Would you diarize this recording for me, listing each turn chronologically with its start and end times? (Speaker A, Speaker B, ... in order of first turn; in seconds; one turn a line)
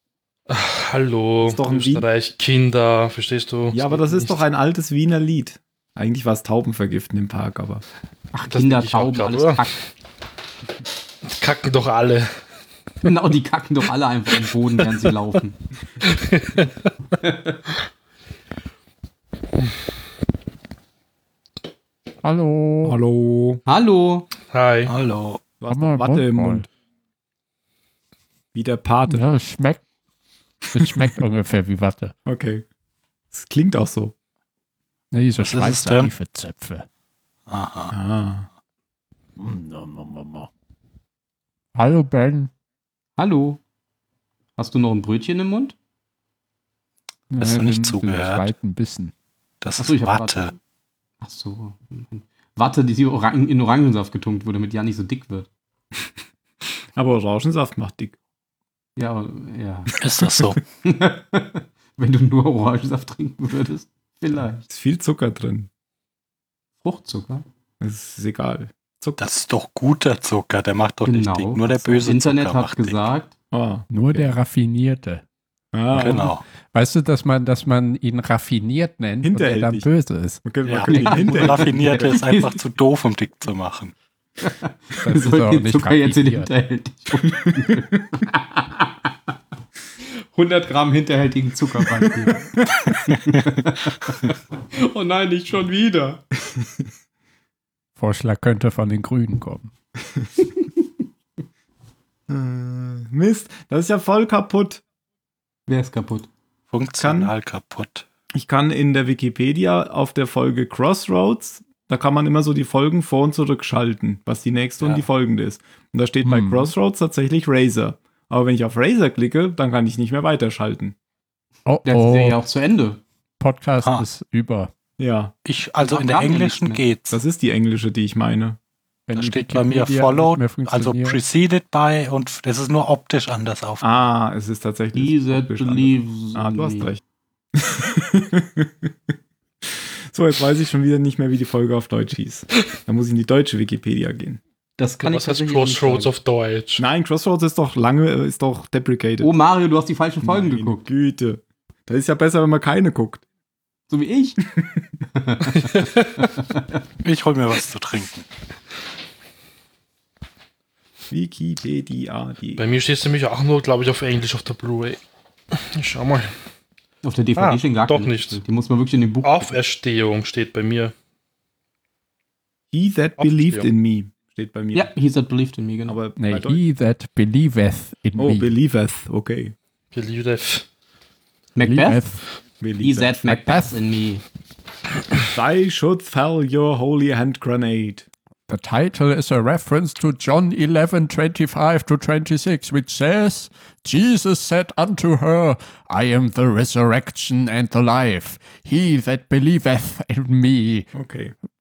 Speaker A: 0.5-4.4
Speaker B: 1.4-2.1
Speaker B: 3.7-7.8
Speaker C: 8.3-9.8
Speaker A: 8.5-9.6
Speaker A: 11.2-12.4
Speaker C: 13.0-15.6
Speaker A: 16.0-16.7
Speaker C: 17.2-17.6
Speaker D: 22.2-23.0
Speaker B: 22.8-23.6
Speaker C: 23.7-24.3
Speaker A: 24.4-24.9
Speaker E: 24.9-25.4
Speaker B: 25.6-26.7
Speaker D: 25.7-26.7
Speaker B: 28.5-29.2
Speaker D: 29.1-29.8
Speaker D: 30.7-32.1
Speaker B: 32.3-32.6
Speaker B: 33.3-34.1
Speaker D: 35.1-36.9
Speaker E: 35.4-36.1
Speaker E: 37.5-37.9
Speaker B: 37.9-38.5
Speaker D: 39.4-40.5
Speaker D: 41.8-42.5
Speaker C: 43.2-43.6
Speaker C: 44.6-45.8
Speaker D: 47.3-49.1
Speaker E: 47.4-48.5
Speaker E: 49.6-50.5
Speaker C: 49.8-50.6
Speaker C: 51.2-55.5
Speaker B: 57.0-58.2
Speaker C: 59.0-59.9
Speaker E: 60.0-60.6
Speaker C: 60.8-64.6
Speaker B: 64.7-65.7
Speaker C: 66.8-67.5
Speaker B: 67.8-69.2
Speaker E: 69.2-73.1
Speaker C: 71.1-73.3
Speaker B: 73.5-74.3
Speaker D: 73.9-75.2
Speaker B: 75.7-76.3
Speaker E: 75.9-76.4
Speaker D: 76.7-80.4
Speaker B: 79.2-79.9
Speaker B: 80.4-81.8
Speaker E: 80.7-83.9
Speaker C: 80.9-82.6
Speaker C: 84.4-89.1
Speaker D: 85.0-86.5
Speaker B: 87.4-87.8
Speaker C: 90.3-96.2
Speaker B: 92.1-93.0
Speaker D: 98.0-99.7
Speaker B: 102.3-104.8
Speaker C: 105.7-106.3
Speaker E: 106.7-108.1
Speaker B: 107.0-107.3
Speaker B: 108.3-121.0
Speaker D: 116.2-116.7
Speaker D: 121.7-122.4
Speaker C: 121.8-123.0
Speaker D: 123.4-124.7
Speaker B: 125.0-125.3
Speaker E: 125.5-127.2
Speaker C: 125.8-126.8
Speaker B: 127.1-128.6
Speaker D: 129.1-131.2
Speaker E: 129.1-133.9
Speaker B: 133.8-137.0
Speaker C: 134.9-136.9
Speaker B: 137.6-138.9
Speaker B: 139.6-144.4
Speaker C: 144.8-146.1
Speaker A: 145.0-146.8
Speaker B: 146.8-149.3
Speaker C: 149.2-150.8
Speaker B: 150.2-153.2
Speaker C: 153.9-154.4
Speaker B: 154.5-154.9
Speaker C: 155.2-155.7
Speaker A: 155.6-156.2
Speaker C: 156.4-156.8
Speaker E: 157.0-158.3
Speaker B: 161.1-162.6
Speaker A: 162.6-165.0
Speaker A: 165.6-166.3
Speaker C: 167.0-169.5
Speaker A: 167.4-168.4
Speaker A: 169.2-170.9
Speaker B: 172.7-174.9
Speaker A: 173.2-173.7
Speaker C: 174.7-176.0
Speaker B: 175.8-176.6
Speaker D: 176.2-178.5
Speaker B: 178.2-179.6
Speaker A: 179.9-180.7
Speaker C: 181.6-182.0
Speaker D: 181.7-182.2
Speaker B: 182.6-183.2
Speaker C: 182.8-184.2
Speaker D: 183.2-183.8
Speaker B: 185.3-188.1
Speaker D: 188.5-200.9
Speaker B: 200.9-201.3